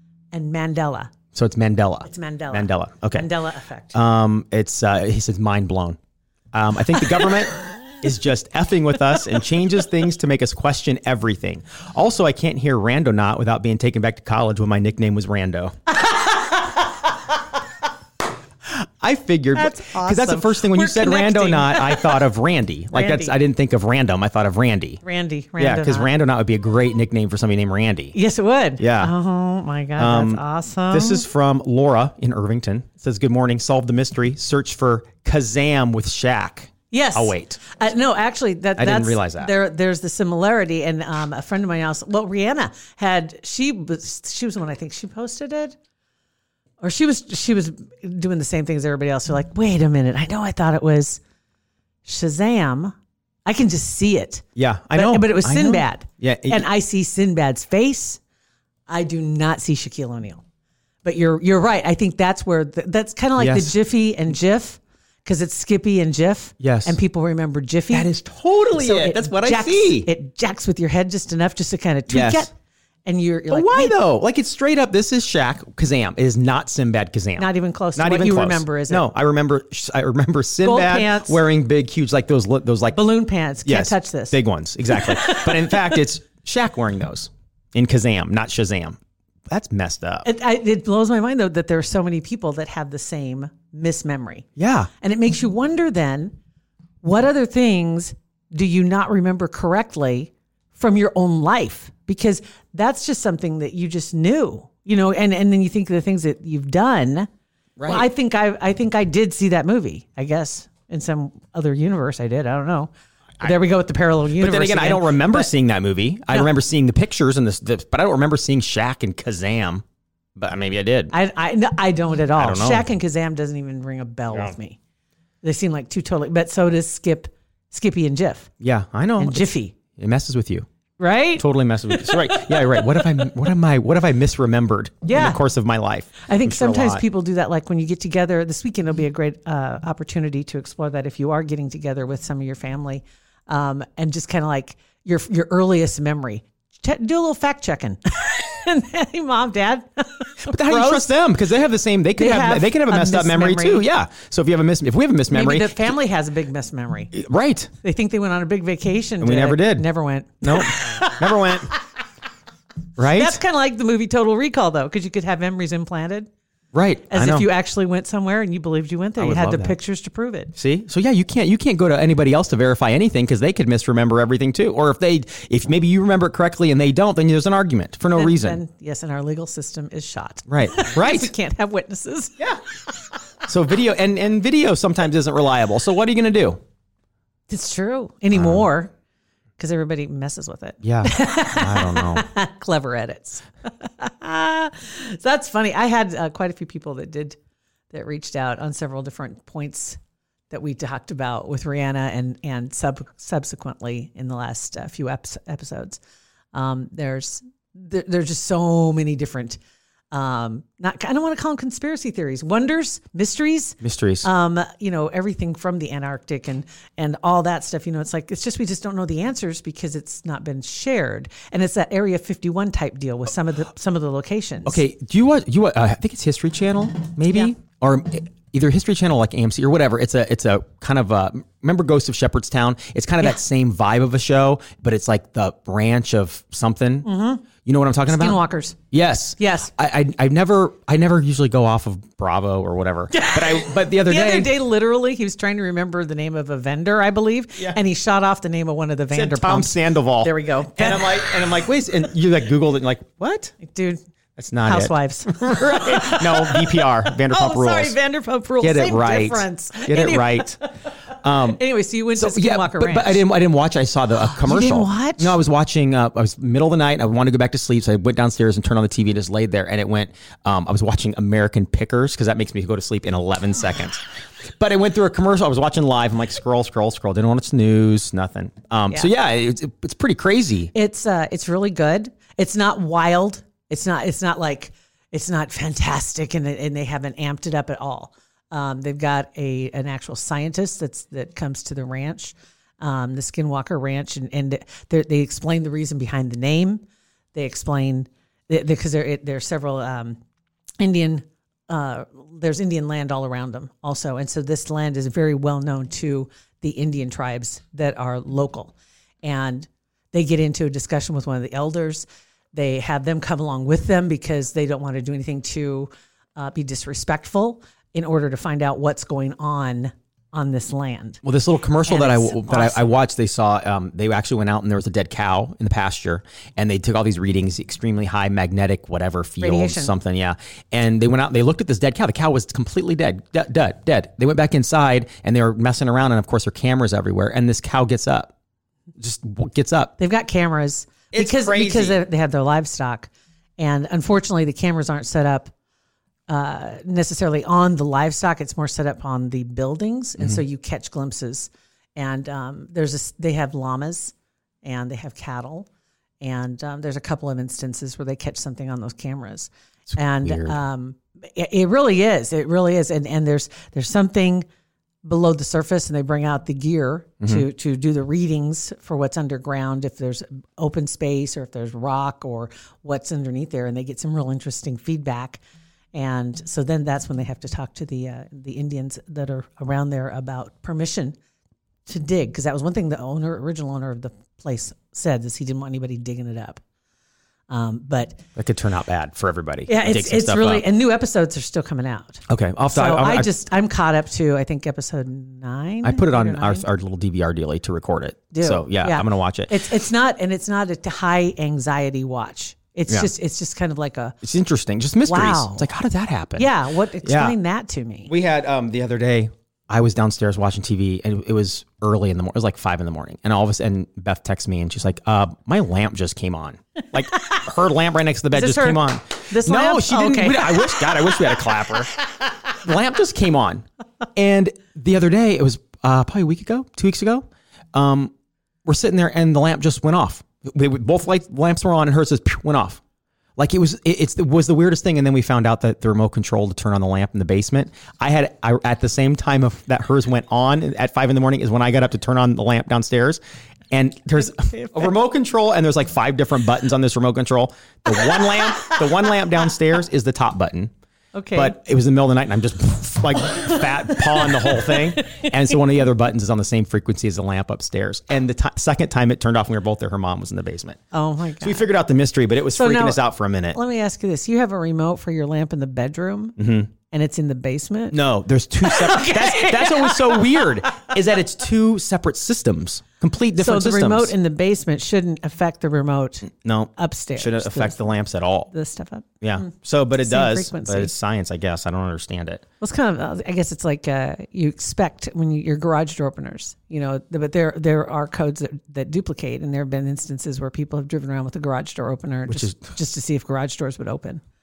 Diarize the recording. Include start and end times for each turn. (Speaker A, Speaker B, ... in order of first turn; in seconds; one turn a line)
Speaker A: 0.3-1.1
Speaker B: 1.3-3.3
Speaker A: 2.0-4.0
Speaker B: 3.9-6.0
Speaker B: 6.5-15.7
Speaker A: 16.1-16.5
Speaker B: 18.8-25.0
Speaker A: 19.5-22.2
Speaker A: 22.9-23.4
Speaker A: 25.0-26.1
Speaker B: 25.6-28.1
Speaker A: 28.1-31.2
Speaker B: 28.8-29.1
Speaker B: 30.0-37.8
Speaker A: 36.9-45.8
Speaker B: 38.8-39.5
Speaker A: 46.8-51.2
Speaker A: 52.0-52.9
Speaker A: 53.5-58.2
Speaker B: 54.5-56.6
Speaker A: 58.9-60.4
Speaker A: 61.0-68.1
Speaker B: 63.4-63.7
Speaker B: 66.6-67.0
Speaker B: 67.9-70.1
Speaker A: 68.8-72.5
Speaker B: 72.1-72.5
Speaker A: 73.0-74.0
Speaker B: 73.5-83.0
Speaker A: 77.4-79.1
Speaker A: 80.6-81.4
Speaker A: 82.9-84.4
Speaker B: 83.7-89.0
Speaker A: 84.9-85.8
Speaker B: 89.5-90.3
Speaker A: 90.2-94.5
Speaker B: 94.5-94.9
Speaker A: 95.0-96.3
Speaker A: 97.0-107.3
Speaker B: 107.8-108.1
Speaker A: 107.8-115.5
Speaker B: 114.4-119.8
Speaker B: 120.3-121.1
Speaker A: 121.1-124.8
Speaker B: 122.3-122.8
Speaker A: 125.4-128.5
Speaker B: 128.6-130.7
Speaker A: 129.2-129.7
Speaker A: 131.0-132.5
Speaker B: 131.4-137.0
Speaker A: 135.0-135.4
Speaker A: 136.2-151.1
Speaker B: 150.4-155.9
Speaker A: 152.2-153.9
Speaker A: 155.3-157.1
Speaker B: 157.1-157.7
Speaker A: 157.8-161.8
Speaker B: 159.2-159.8
Speaker B: 160.4-161.7
Speaker B: 163.0-163.4
Speaker A: 163.0-166.3
Speaker B: 166.7-167.5
Speaker A: 167.1-170.5
Speaker B: 169.2-169.8
Speaker B: 170.6-178.6
Speaker A: 178.1-182.5
Speaker B: 180.5-181.3
Speaker B: 183.4-186.6
Speaker A: 187.5-188.9
Speaker B: 188.3-188.6
Speaker A: 189.6-197.4
Speaker B: 190.8-192.2
Speaker A: 197.9-200.0
Speaker A: 200.5-206.0
Speaker A: 206.5-209.6
Speaker A: 210.1-224.8
Speaker B: 213.8-214.3
Speaker B: 224.6-238.4
Speaker A: 237.0-237.4
Speaker A: 238.1-238.8
Speaker B: 238.9-244.5
Speaker A: 239.4-239.7
Speaker A: 243.1-251.6
Speaker B: 249.1-253.5
Speaker A: 253.6-254.0
Speaker B: 254.4-257.9
Speaker A: 254.6-260.7
Speaker B: 258.6-260.6
Speaker B: 261.2-261.6
Speaker A: 261.4-263.2
Speaker B: 262.1-274.0
Speaker A: 264.4-265.4
Speaker B: 274.6-280.7
Speaker A: 280.7-300.2
Speaker A: 300.8-321.2
Speaker B: 321.2-338.3
Speaker A: 321.9-322.9
Speaker A: 329.4-329.9
Speaker B: 339.0-339.9
Speaker A: 340.0-345.5
Speaker B: 341.1-342.0
Speaker A: 346.3-355.7
Speaker A: 356.2-364.4
Speaker B: 359.9-360.6
Speaker A: 365.0-375.4
Speaker A: 375.9-381.1
Speaker A: 381.9-386.6
Speaker A: 387.5-388.2
Speaker B: 388.4-390.6
Speaker A: 389.7-396.6
Speaker B: 392.3-393.3
Speaker B: 395.8-399.6
Speaker A: 398.3-404.1
Speaker B: 404.2-406.5
Speaker A: 405.1-405.6
Speaker A: 406.4-408.1
Speaker B: 407.0-407.3
Speaker B: 408.1-421.9
Speaker A: 418.3-421.5
Speaker B: 422.6-423.6
Speaker B: 424.1-428.1
Speaker B: 428.6-432.8
Speaker B: 433.4-443.2
Speaker B: 443.7-450.7
Speaker A: 444.2-444.9
Speaker A: 448.3-448.9
Speaker A: 451.1-451.6
Speaker B: 451.3-460.8
Speaker A: 453.5-455.4
Speaker A: 460.9-461.7
Speaker B: 461.4-463.6
Speaker A: 462.5-466.4
Speaker B: 466.4-466.7
Speaker A: 466.9-468.0
Speaker B: 467.9-474.1
Speaker A: 468.6-470.8
Speaker A: 473.4-477.8
Speaker B: 476.3-478.5
Speaker A: 478.5-479.4
Speaker B: 479.2-482.4
Speaker A: 480.0-480.9
Speaker A: 482.6-494.2
Speaker B: 492.3-492.6